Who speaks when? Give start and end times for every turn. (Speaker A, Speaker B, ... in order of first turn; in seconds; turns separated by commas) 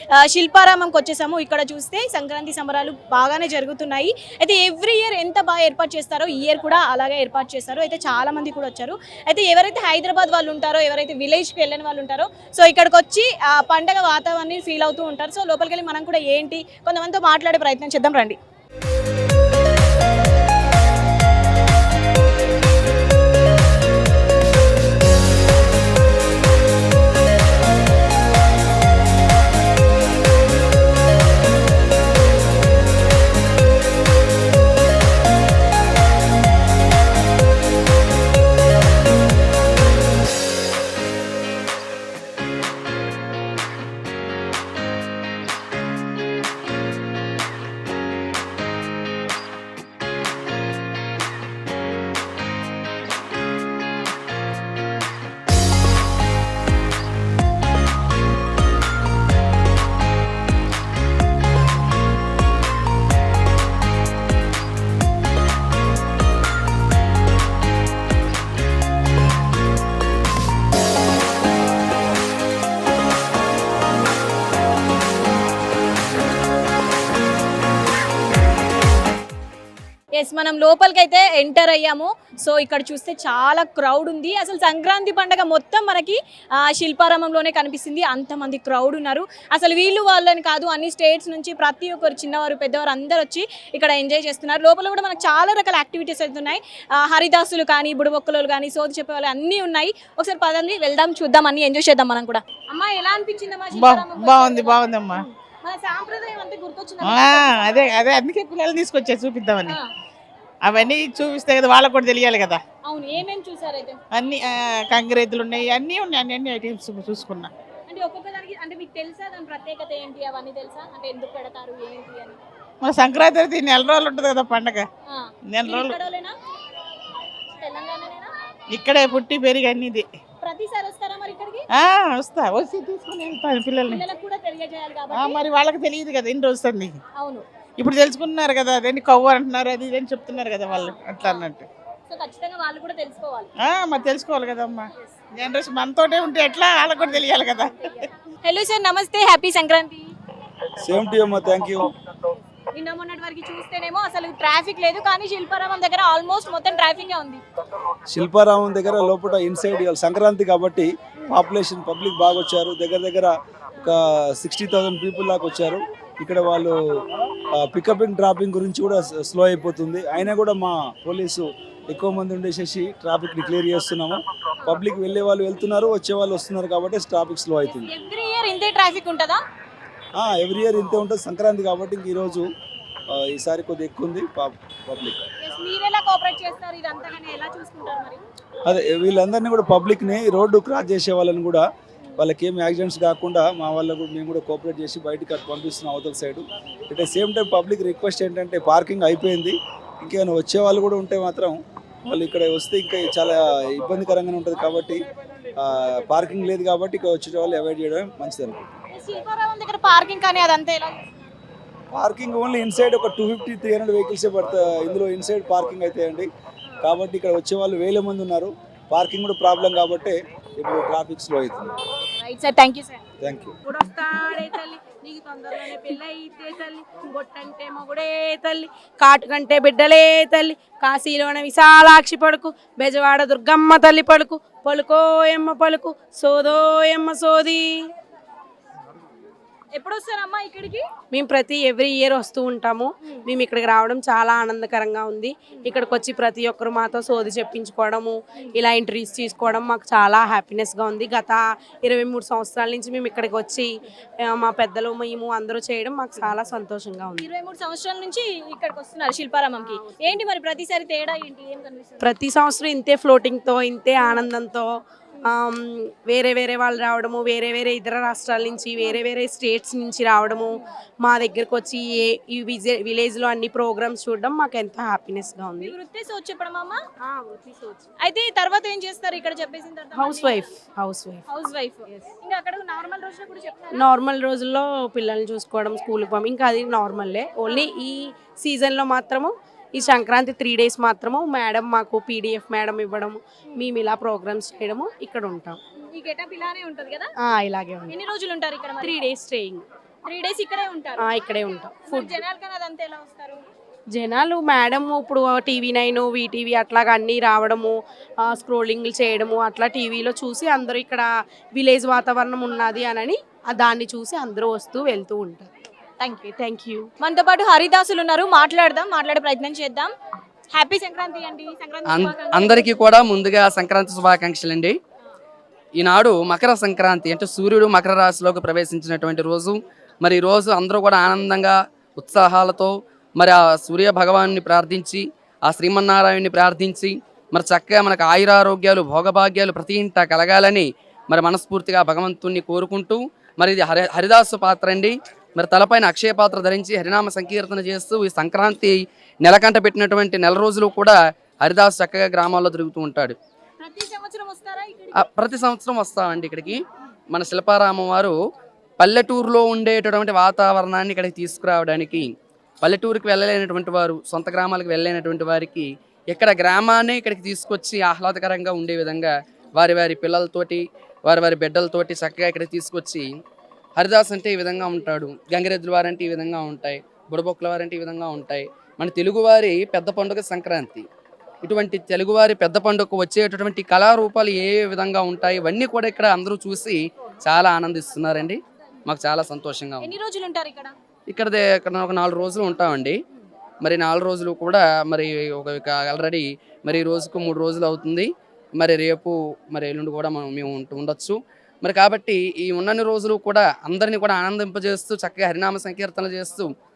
Speaker A: 0.2-18.4, Speaker A: 80.2-107.6, Speaker B: 103.7-105.2, Speaker B: 107.0-109.8, Speaker B: 110.6-112.6, Speaker A: 112.8-114.0, Speaker B: 114.1-117.5, Speaker A: 117.9-122.4, Speaker B: 122.8-124.9, Speaker A: 125.1-126.3, Speaker B: 125.5-126.0, Speaker A: 127.5-128.3, Speaker B: 128.7-130.1, Speaker A: 130.4-131.6, Speaker B: 131.7-134.1, Speaker A: 133.8-135.4, Speaker B: 135.1-137.0, Speaker A: 137.2-137.4, Speaker B: 137.8-141.7, Speaker A: 140.7-141.5, Speaker A: 142.1-143.5, Speaker B: 143.6-148.1, Speaker A: 147.0-147.3, Speaker A: 148.3-150.1, Speaker C: 150.8-151.9, Speaker A: 152.7-157.4, Speaker C: 158.1-166.7, Speaker C: 167.6-177.9, Speaker A: 177.7-179.4, Speaker C: 180.2-182.4, Speaker C: 183.1-185.2, Speaker A: 185.4-188.2, Speaker C: 188.7-191.6, Speaker C: 192.2-205.0, Speaker C: 205.6-208.6, Speaker A: 208.9-211.3, Speaker C: 211.9-216.3, Speaker C: 216.8-221.7, Speaker A: 222.2-223.0, Speaker C: 223.2-223.5, Speaker A: 223.7-228.3, Speaker D: 228.3-237.9, Speaker A: 239.7-240.8, Speaker D: 241.1-253.7, Speaker D: 254.2-257.2, Speaker A: 257.2-262.1, Speaker D: 262.0-264.6, Speaker D: 265.4-270.5, Speaker D: 271.0-275.7, Speaker A: 275.6-276.8, Speaker D: 277.1-277.8, Speaker A: 278.0-280.5, Speaker D: 279.9-281.2, Speaker A: 281.3-283.8, Speaker D: 283.8-295.6, Speaker A: 295.9-297.1, Speaker D: 297.2-297.9, Speaker A: 297.9-299.0, Speaker D: 298.8-299.6, Speaker A: 300.1-301.0, Speaker D: 301.0-302.1, Speaker A: 301.8-303.4, Speaker D: 303.9-315.5, Speaker A: 316.0-316.3, Speaker D: 316.3-316.9, Speaker A: 317.0-319.9, Speaker A: 320.5-322.8, Speaker E: 321.9-324.8, Speaker E: 325.8-353.1, Speaker A: 353.6-355.0, Speaker E: 354.9-356.6, Speaker E: 357.1-358.1, Speaker E: 358.8-362.1, Speaker E: 362.6-373.1, Speaker E: 373.8-380.9, Speaker E: 381.4-389.9, Speaker A: 389.8-390.7, Speaker E: 391.1-392.9, Speaker E: 393.6-406.5